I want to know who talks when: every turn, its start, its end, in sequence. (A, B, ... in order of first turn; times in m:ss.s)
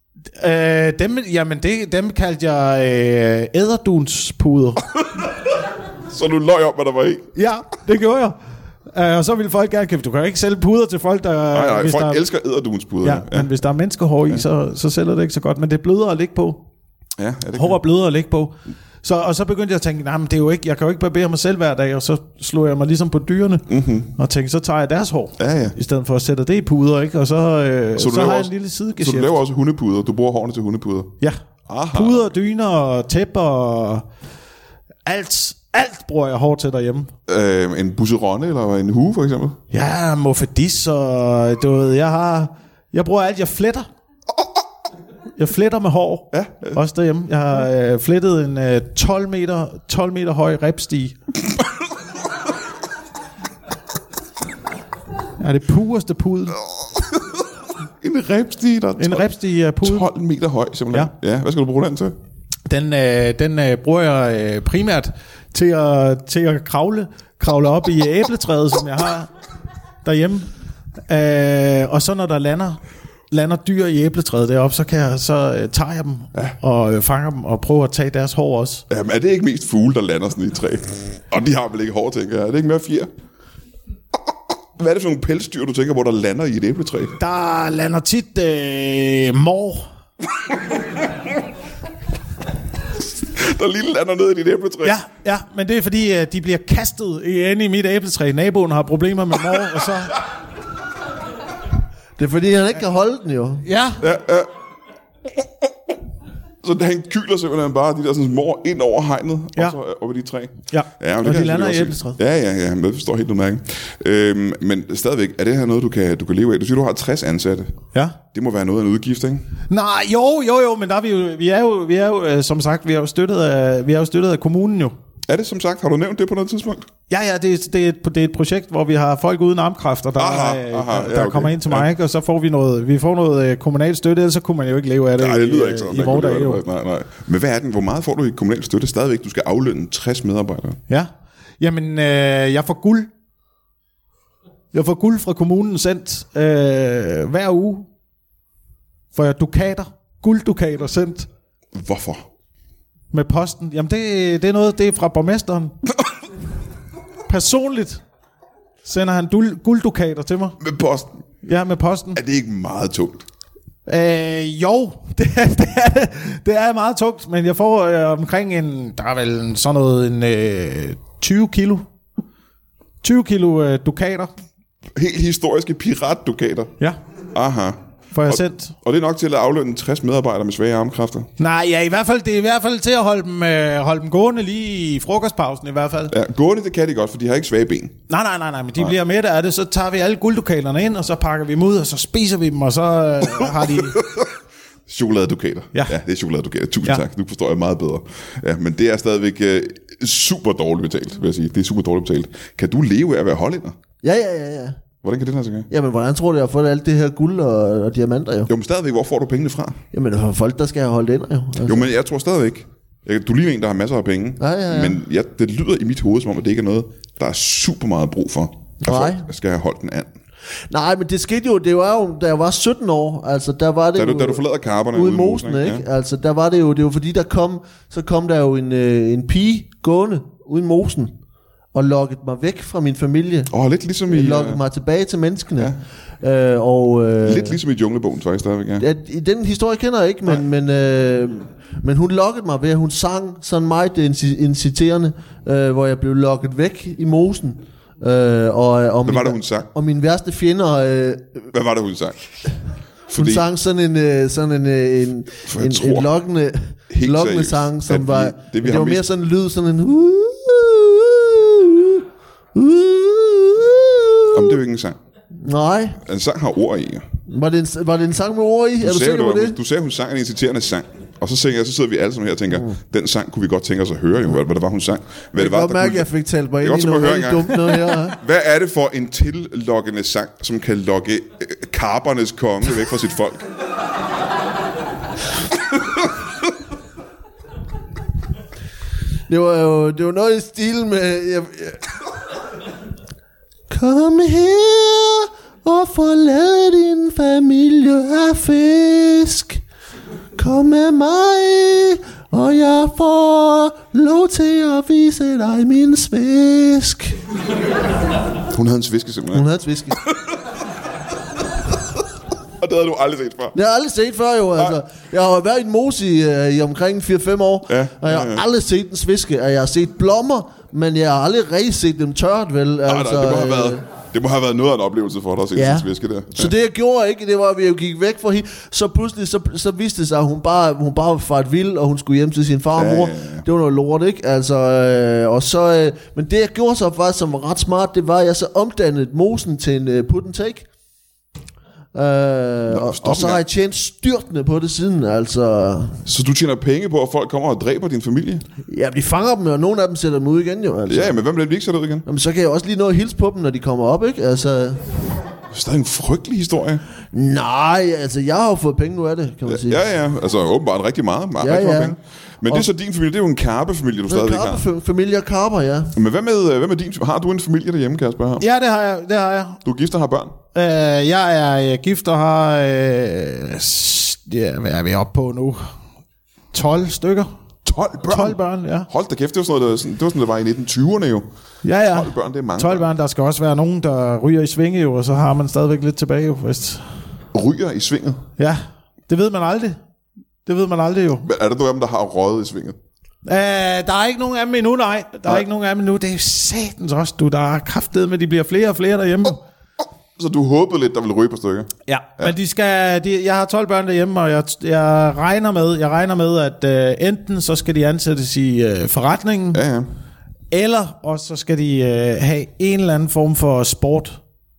0:00.4-0:04.8 A
0:05.0-0:05.3 B
0:06.1-0:07.3 B
0:07.4-0:08.4 A
0:08.9-0:12.2 A
0:11.5-0:13.5 B
0:13.0-0:16.6 A
0:17.2-0:17.8 B
0:17.6-0:29.4 A
0:23.7-0:24.1 B
0:25.4-0:25.7 B
0:28.0-0:31.2 B
0:31.7-0:32.3 B
0:31.9-0:34.1 A
0:35.1-0:37.1 A
0:37.3-0:39.6 B
0:39.7-0:43.9 A
0:45.4-0:51.2 A
0:46.3-0:46.8 B
0:55.4-0:56.6 A
0:56.8-0:57.3 B
0:58.0-0:59.3 B
0:59.0-1:00.1 A
0:59.8-1:02.1 B
1:02.7-1:09.3 A
1:10.0-1:10.5 A
1:11.1-1:12.8 A
1:13.3-1:18.8 A
1:18.9-1:23.1 B
1:24.8-1:27.2 B
1:27.2-1:29.9 A
1:33.2-1:34.9 B
1:34.8-1:40.1 A
1:42.2-1:43.6 C
1:43.6-1:44.0 A
1:44.0-1:44.5 B
1:46.6-1:57.7 B
1:50.7-1:52.2 A
1:58.3-1:59.4 B
1:59.7-2:04.9 A
2:05.3-2:06.9 B
2:07.1-2:16.6 A
2:10.2-2:11.9 B
2:15.2-2:20.8 B
2:20.9-2:23.1 A
2:24.7-2:27.9 A
2:29.1-2:31.3 A
2:31.7-2:32.2 B
2:33.1-2:35.8 A
2:37.3-2:38.0 A
2:38.8-2:40.6 A
2:40.6-2:41.1 B
2:41.4-2:42.2 A
2:42.1-2:43.2 B
2:43.9-2:51.9 A
2:53.0-2:54.3 A
2:54.9-2:56.7 B
2:57.3-3:01.3 B
2:58.1-2:58.7 A
3:01.4-3:06.1 A
3:06.1-3:08.0 B
3:08.1-3:14.0 A
3:13.6-3:14.3 B
3:14.9-3:23.7 B
3:24.0-3:24.8 C
3:25.0-3:25.7 B
3:25.7-3:28.5 C
3:28.5-3:29.8 B
3:29.9-3:31.9 C
3:31.6-3:40.1 B
3:34.4-3:35.0 C
3:38.8-3:39.2 C
3:40.7-3:51.1 C
3:44.0-3:45.8 B
3:51.7-3:53.5 C
3:53.5-3:54.6 B
3:54.1-3:57.6 C
3:57.2-3:58.8 B
3:58.8-4:11.5 C
4:09.1-4:09.7 B
4:11.5-4:12.2 B
4:13.1-4:13.4 B
4:13.1-4:24.6 C
4:15.5-4:16.1 B
4:16.9-4:19.0 B
4:24.3-4:25.0 B
4:25.4-4:26.0 C
4:26.0-4:27.0 B
4:27.2-4:29.6 C
4:28.8-4:36.1 B
4:35.4-4:38.2 C
4:36.6-4:43.5 B
4:49.3-4:51.9 C
4:53.7-4:59.6 C
5:00.4-5:07.2 C
5:08.5-5:09.4 B
5:09.3-5:10.0 C
5:10.0-5:10.3 B
5:12.6-5:13.6 B
5:13.5-5:23.8 C
5:17.7-5:18.4 B
5:22.9-5:26.5 B
5:25.6-5:40.7 C
5:32.8-5:33.4 B
5:41.9-5:46.0 C
5:42.7-5:43.4 B
5:46.0-5:48.4 B
5:48.7-5:51.2 C
5:50.9-5:52.0 B
5:52.1-5:55.0 C
5:55.5-5:56.8 B
5:57.1-5:59.8 C
5:59.5-6:04.6 B
6:01.4-6:02.0 C
6:04.1-6:06.0 C
6:05.9-6:08.4 B
6:08.4-6:09.6 A
6:09.6-6:10.4 B
6:10.5-6:15.7 A
6:16.5-6:17.3 A
6:17.6-6:21.2 B
6:18.0-6:18.9 A
6:21.6-6:26.8 A
6:21.9-6:22.8 B
6:27.3-6:28.2 B
6:28.4-6:29.8 A
6:30.4-6:31.2 A
6:31.2-6:32.8 B
6:33.2-6:39.4 A
6:40.2-6:42.3 B
6:41.9-6:49.6 A
6:49.5-6:49.9 B
6:50.5-6:54.2 A